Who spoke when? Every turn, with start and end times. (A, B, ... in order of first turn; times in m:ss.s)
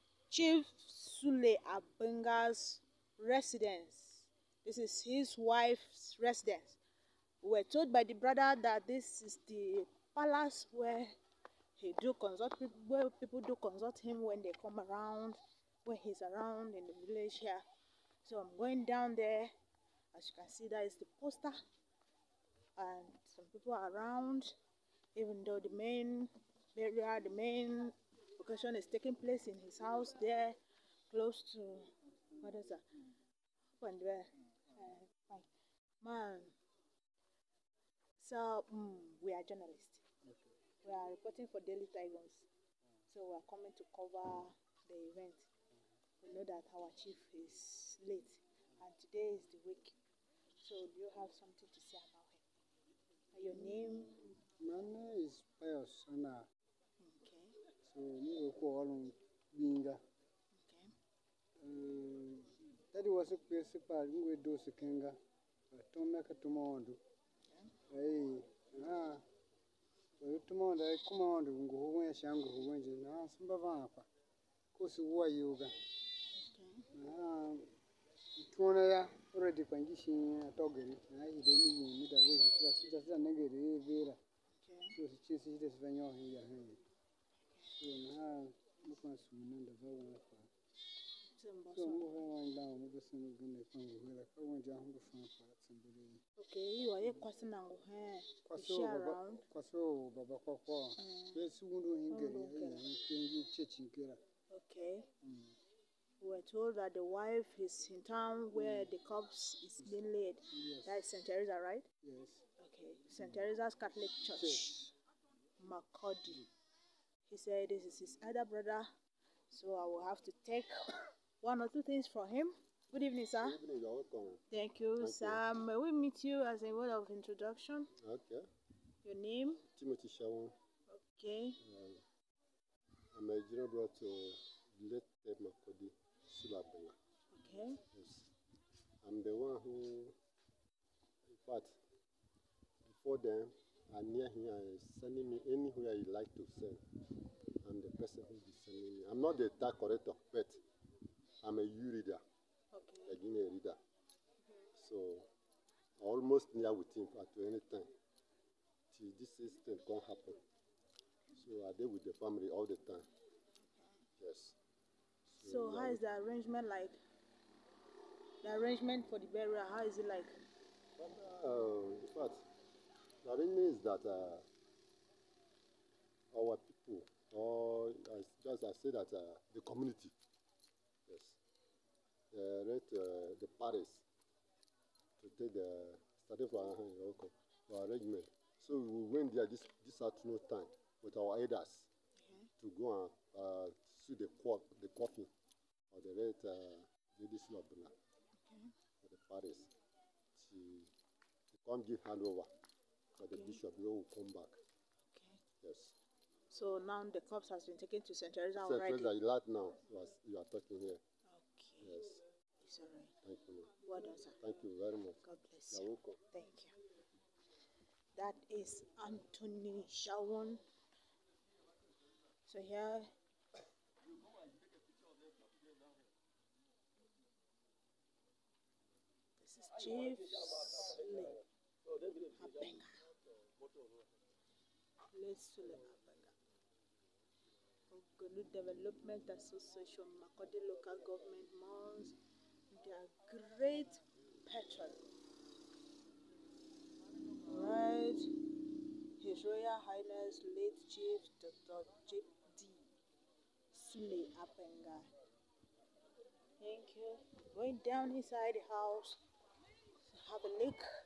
0:00.3-0:06.8 A
0:07.4-0:11.2 A
0:11.8-0:17.6 A
0:18.2-0:19.5 A
0:20.1-0:21.5 A
0:22.8-0:24.5 A
0:25.2-0:30.6 A
0:31.1-0:32.8 A
0:33.8-0:35.5 A
0:36.0-0:36.5 A
0:38.2-0:40.0 A
0:40.8-0:42.5 A
0:43.1-0:45.5 A
0:46.2-0:50.0 A
0:50.6-0:52.4 A
0:53.3-0:54.2 A
0:54.6-0:56.5 B
0:57.0-0:57.6 A
0:57.8-1:00.0 B
1:00.6-1:00.9 A
1:01.6-1:05.2 B
1:05.7-1:07.0 B
1:07.9-1:09.2 B
1:10.2-1:14.1 B
1:14.7-1:15.7 B
1:16.4-1:16.9 A
1:16.9-1:17.7 B
1:18.4-1:24.2 B
1:24.6-1:25.0 A
1:25.0-1:26.8 B
1:27.8-1:30.5 B
1:31.3-1:32.1 A
1:31.7-1:36.2 B
1:36.4-1:39.4 A
1:38.5-1:44.2 B
1:41.0-1:41.4 A
1:42.1-1:42.8 A
1:44.5-1:45.1 A
1:45.2-1:45.5 B
1:46.2-1:51.8 A
1:48.6-1:48.9 B
1:50.5-1:51.0 B
1:52.0-1:52.4 B
1:52.6-1:54.7 A
1:54.4-1:54.9 B
1:55.6-1:56.5 A
1:57.3-1:58.9 A
1:59.5-2:03.6 A
2:03.4-2:04.4 C
2:04.5-2:07.9 A
2:05.0-2:05.4 C
2:08.0-2:08.4 C
2:09.0-2:09.6 A
2:09.6-2:10.6 C
2:11.0-2:11.6 A
2:11.6-2:12.0 C
2:13.1-2:17.0 C
2:17.3-2:17.8 A
2:17.9-2:18.3 C
2:19.0-2:20.2 C
2:21.3-2:21.8 C
2:22.8-2:26.8 C
2:27.6-2:30.6 C
2:31.4-2:32.2 C
2:32.7-2:33.2 A
2:33.1-2:33.8 C
2:34.8-2:35.3 C
2:36.0-2:37.9 C
2:38.9-2:40.4 C
2:41.3-2:43.1 C
2:44.2-2:44.6 C
2:45.3-2:46.0 C
2:45.4-2:47.0 A
2:48.4-2:50.3 A
2:51.0-2:52.5 C
2:53.2-2:54.5 C
2:56.3-3:00.2 C
3:01.1-3:01.4 C
3:02.3-3:04.0 C
3:05.2-3:11.9 C
3:12.2-3:12.5 A
3:12.6-3:15.3 C
3:15.9-3:18.0 C
3:18.4-3:18.7 A
3:19.0-3:19.7 C
3:20.3-3:20.9 C
3:21.5-3:22.5 C
3:23.2-3:24.6 C
3:23.3-3:23.6 A
3:25.1-3:25.4 A
3:25.6-3:26.0 C
3:26.5-3:29.1 A
3:28.6-3:31.0 C
3:31.3-3:31.9 A
3:31.8-3:32.2 C
3:32.6-3:33.1 A
3:33.2-3:33.8 C
3:33.8-3:34.4 A
3:34.4-3:36.2 C
3:35.2-3:36.7 A
3:38.2-3:40.6 A
3:42.5-3:43.1 A
3:49.4-3:51.4 A
3:52.2-3:53.0 A
3:55.1-3:56.3 A
3:57.9-4:02.2 A
4:02.7-4:05.0 A
4:07.4-4:08.3 A
4:09.2-4:12.9 A
4:13.7-4:15.1 A
4:16.6-4:19.2 A
4:20.1-4:20.8 A